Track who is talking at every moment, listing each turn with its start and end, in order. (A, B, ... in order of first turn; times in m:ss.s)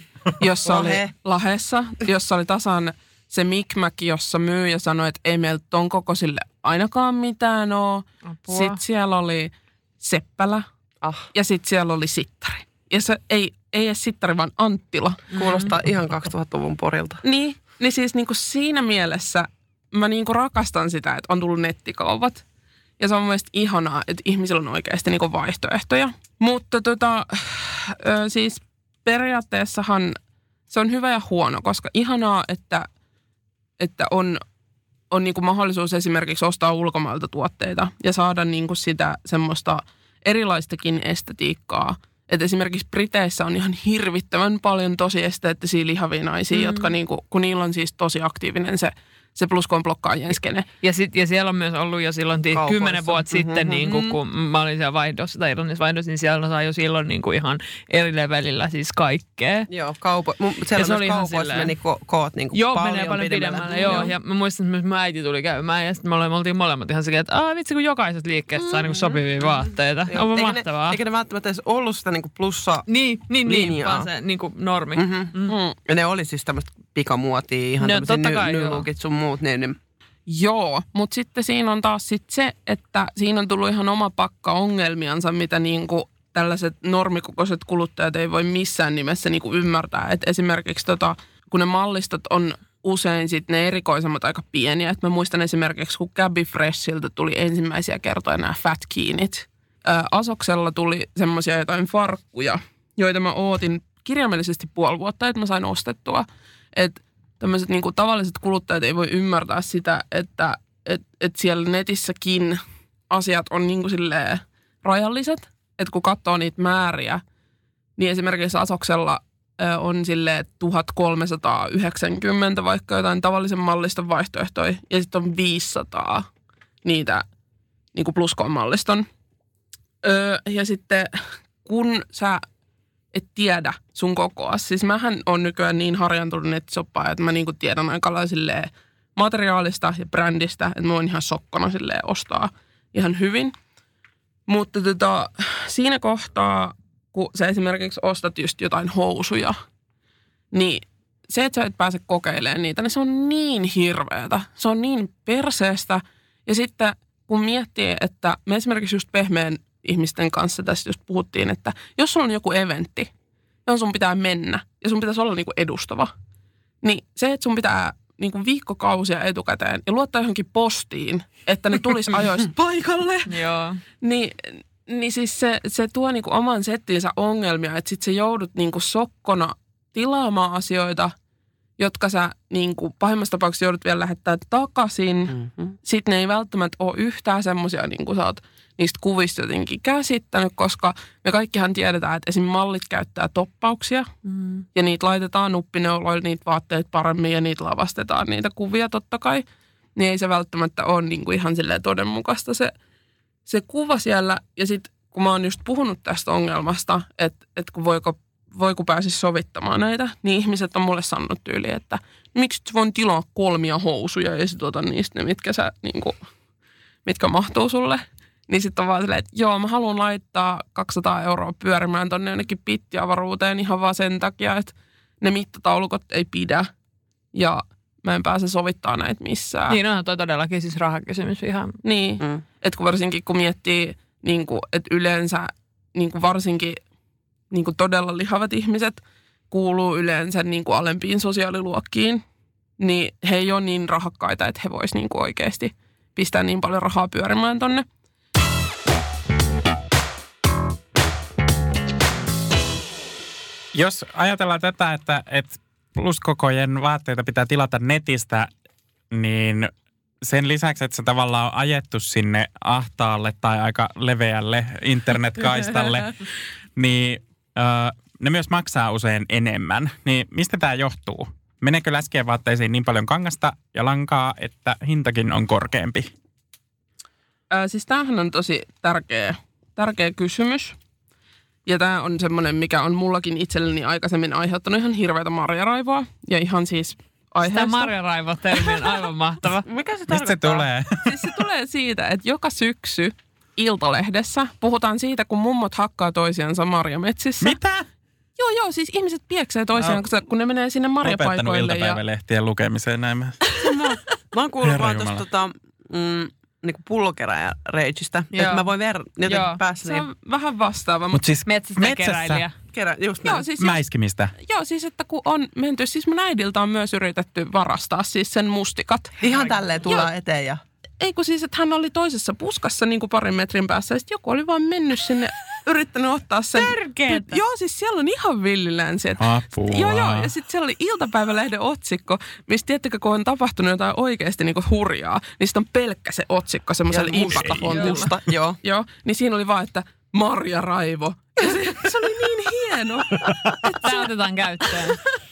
0:00.4-0:10.6 A
0:00.6-0:01.1 B
0:08.3-0:08.8 C
0:11.3-0:15.2 A
0:15.3-0:17.2 B
0:15.3-0:15.7 C
0:17.2-0:22.4 A
0:23.0-0:30.2 A
0:30.7-0:32.9 A
0:33.8-0:34.4 A
0:35.1-0:50.6 A
0:46.5-0:46.9 C
0:50.8-0:59.7 C
0:52.5-0:54.2 B
0:59.7-1:04.1 B
1:00.7-1:01.7 C
1:02.5-1:11.0 C
1:08.6-1:12.9 B
1:12.9-1:15.5 C
1:13.4-1:14.1 B
1:14.9-1:19.8 B
1:15.5-1:15.7 A
1:17.8-1:18.9 C
1:20.3-1:52.6 A
1:53.1-1:57.2 A
1:58.0-2:06.3 A
2:06.8-2:07.2 A
2:07.9-2:09.0 A
2:10.0-2:12.4 A
2:13.1-2:23.5 A
2:24.5-2:29.6 A
2:30.5-2:43.1 A
2:43.6-2:46.1 A
2:46.8-2:53.3 A
2:53.3-2:53.8 C
2:54.0-3:01.1 A
3:01.8-3:14.1 A
3:05.4-3:05.7 B
3:14.7-3:19.4 A
3:20.0-3:22.7 A
3:23.4-3:36.2 A
3:37.0-3:46.7 A
3:47.3-3:49.8 A
3:49.7-3:51.8 C
3:51.8-3:56.8 A
3:57.5-4:02.2 A
4:02.8-4:07.9 A
4:13.7-4:18.5 D
4:19.1-4:19.7 D
4:20.2-4:26.1 D
4:26.8-4:36.1 D
4:37.5-4:40.8 A
4:41.6-4:47.9 A
4:47.4-4:49.6 C
4:48.6-4:48.9 A
4:49.6-4:50.7 B
4:50.1-4:50.9 D
4:51.0-4:57.6 A
4:57.4-4:57.9 D
4:58.4-5:02.0 A
4:59.8-5:00.0 D
5:01.0-5:03.4 D
5:03.6-5:10.0 B
5:04.6-5:05.2 D
5:08.3-5:08.6 C
5:09.3-5:09.6 C
5:09.8-5:11.2 A
5:11.1-5:12.4 D
5:11.4-5:12.5 C
5:12.7-5:13.4 B
5:13.2-5:13.8 A
5:13.6-5:14.3 D
5:14.4-5:20.1 A
5:19.2-5:20.6 B
5:21.0-5:44.0 A
5:26.6-5:27.4 C
5:29.2-5:30.3 D
5:36.9-5:38.6 B
5:37.7-5:38.0 C
5:43.8-5:45.0 C